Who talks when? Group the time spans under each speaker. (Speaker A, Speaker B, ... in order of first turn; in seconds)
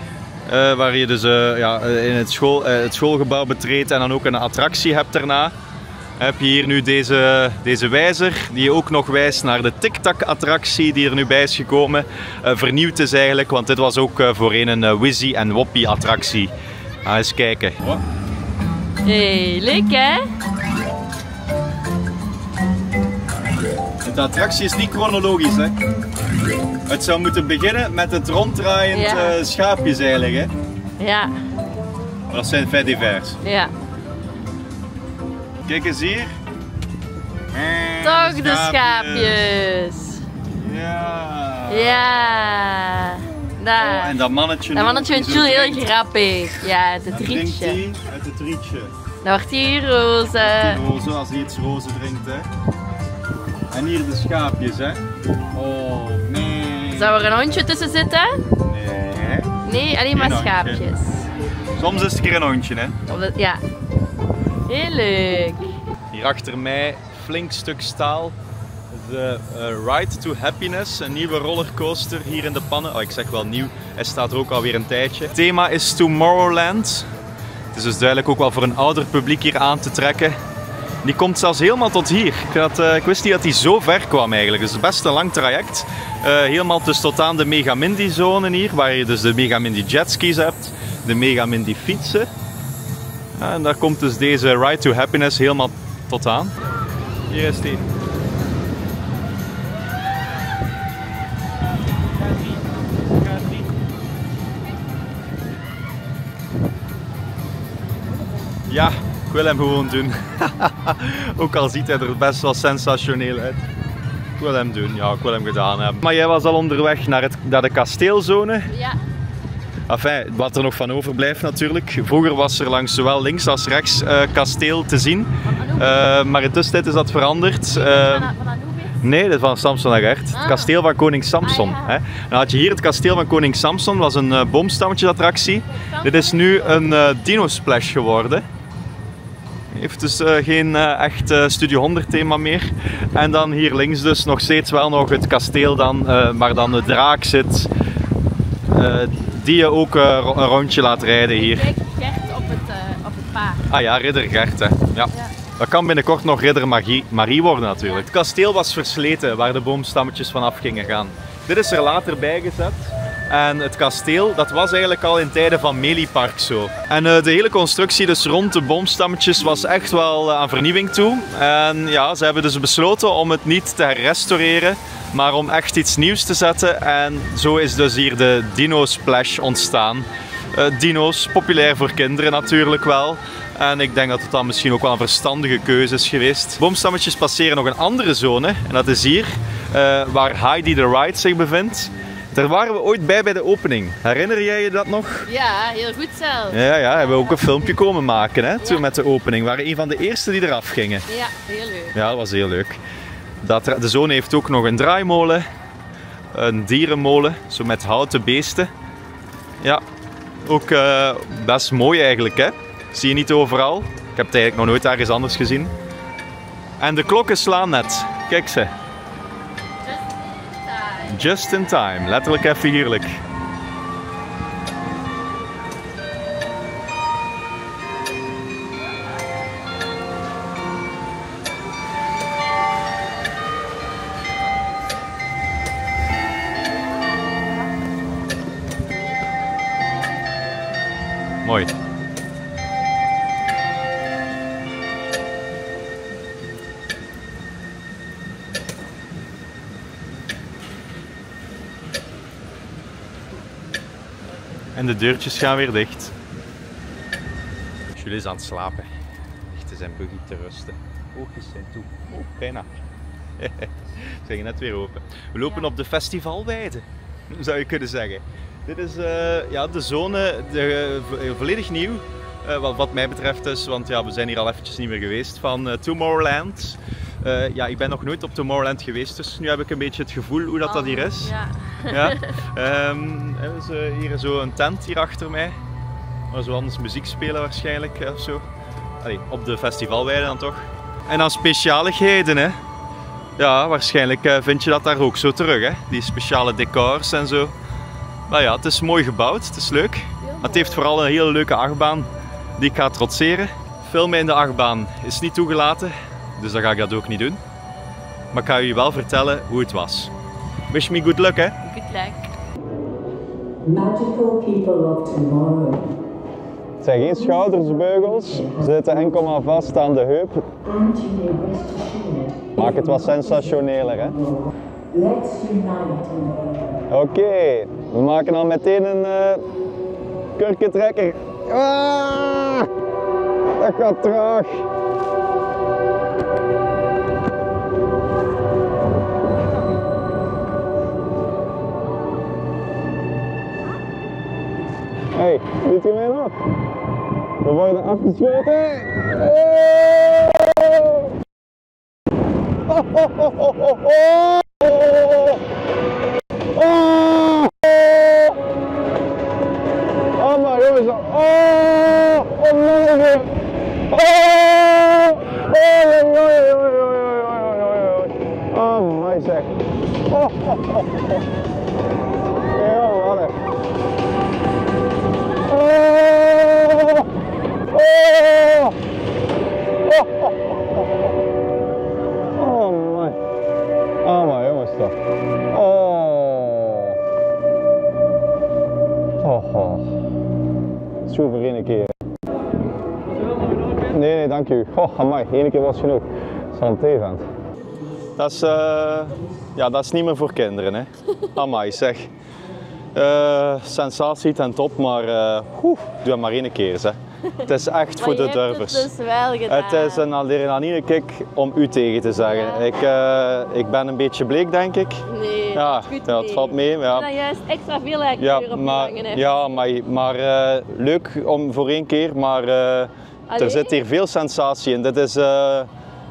Speaker A: 0.5-5.5, 6.2-16.5, 17.1-18.0, 24.0-25.8, 26.9-30.5, 32.3-33.4, 35.7-36.4, 37.5-39.4, 40.6-42.3, 43.8-45.9, 47.1-48.9, 50.4-52.5, 53.7-55.0, 55.5-57.2, 58.6-59.5, 60.1-60.8, 61.8-63.0, 66.1-68.3, 68.9-77.1, 77.7-80.4, 81.0-92.3, 93.4-96.5, 97.3-97.9, 108.7-113.6, 114.4-118.7, 119.9-128.3, 129.0-138.4, 139.7-147.7, 148.7-151.7, 153.7-195.3, 196.5-201.1, 201.9-202.8, 203.4-205.5, 206.3-208.7, 210.4-215.7, 216.8-218.7, 221.1-223.2, 241.4-241.7, 254.8-256.1, 257.9-258.9, 259.5-262.8, 263.4-281.3, 281.9-285.6, 286.3-288.4, 289.0-292.6, 293.4-297.5, 298.3-307.4, 308.3-310.1, 310.7-311.6, 316.8-320.5, 322.6-324.2, 326.9-329.4, 330.4-332.7, 333.6-334.7, 345.1-346.4, 347.4-350.3, 352.7-355.4, 356.6-358.3, 360.2-363.3, 363.9-369.6, 370.1-371.0, 372.5-373.4, 375.5-376.9, 377.7-378.7, 379.9-380.3, 382.4-383.2, 384.0-384.9, 385.5-387.0, 389.2-390.0, 391.1-391.9, 393.5-397.3, 398.2-402.1, 402.9-408.9, 409.5-417.1, 418.2-425.7
Speaker B: 19.1-20.3, 28.9-29.4, 31.0-31.3, 33.4-33.7, 38.0-40.2, 41.7-44.1, 44.7-47.8, 49.2-50.8, 57.0-58.4, 59.6-61.3, 63.1-63.6, 64.7-65.8, 118.7-119.0, 125.5-126.0, 127.7-129.0, 130.3-130.7, 131.4-132.0, 135.7-137.0, 151.3-153.6, 195.3-197.8, 201.1-202.0, 219.8-221.1, 280.7-282.3, 300.2-300.8, 311.6-312.3, 408.0-410.1, 412.2-412.7, 415.1-419.3, 423.3-423.8
Speaker C: 313.6-315.9, 320.6-322.5, 324.9-326.8